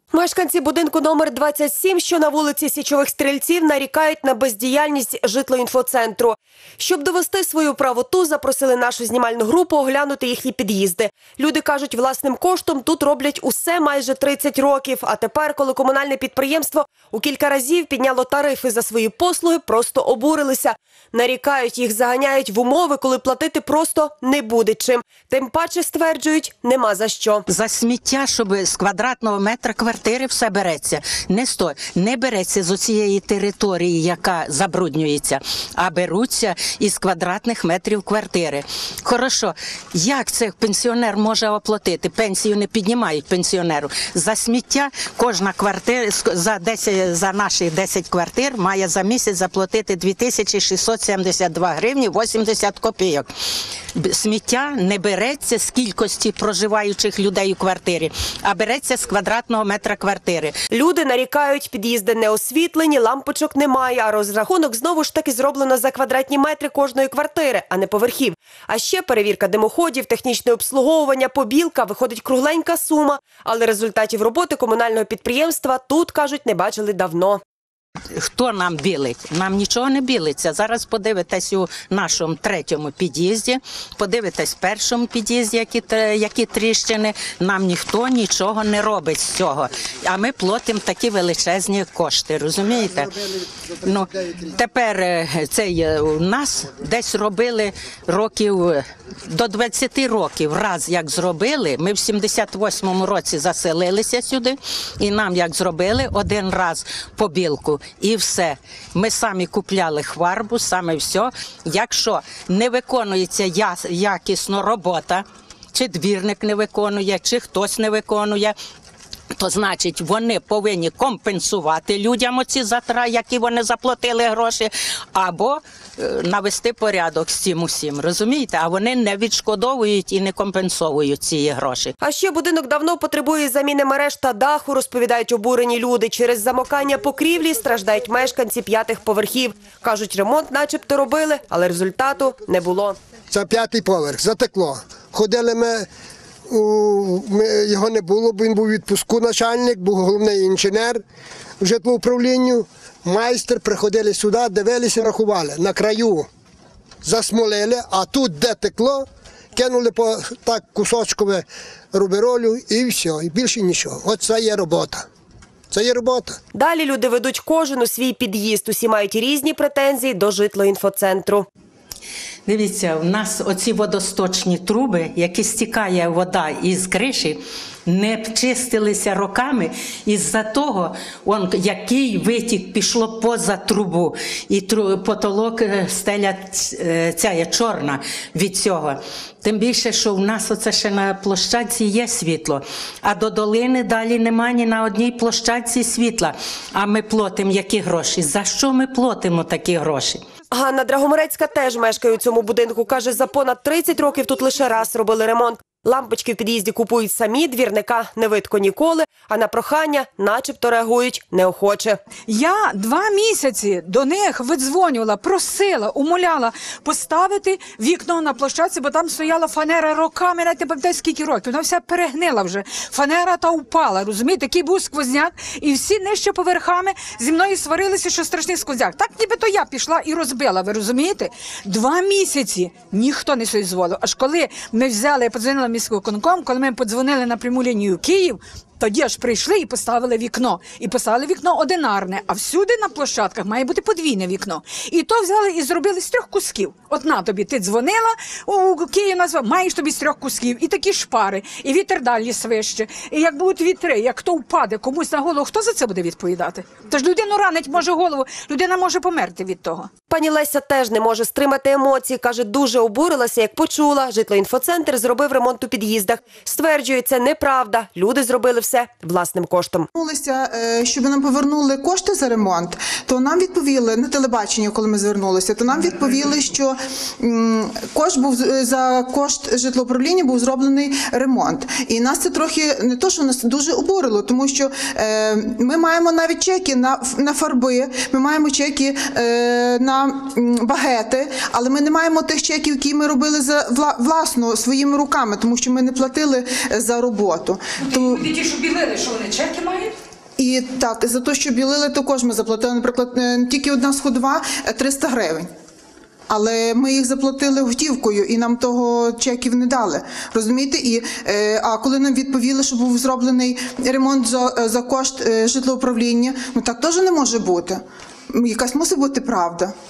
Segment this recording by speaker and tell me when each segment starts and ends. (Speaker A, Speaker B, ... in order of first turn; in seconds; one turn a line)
Speaker A: 0.1-27.4
Speaker B: 27.6-53.3
Speaker B: 54.0-60.5
Speaker A: 60.7-77.4
Speaker B: 78.2-92.8
Speaker B: 94.8-108.5
Speaker B: 109.1-115.2
Speaker B: 115.8-118.5
Speaker B: 119.4-125.6
Speaker B: 126.3-131.8
Speaker A: 132.0-143.0
Speaker C: 143.3-145.9
Speaker C: 146.5-151.0
Speaker C: 151.6-156.3
Speaker C: 157.0-165.1
Speaker C: 165.7-166.4
Speaker A: 166.5-171.5
Speaker B: 173.1-177.0
Speaker B: 177.9-189.0
Speaker B: 189.5-200.1
Speaker A: 200.5-212.0
Speaker D: 212.3-259.9
Speaker A: 260.1-269.9
Speaker E: 269.9-298.3
Speaker D: 297.8-299.9
Speaker E: 300.4-305.5
Speaker E: 306.3-317.8
Speaker E: 318.3-319.7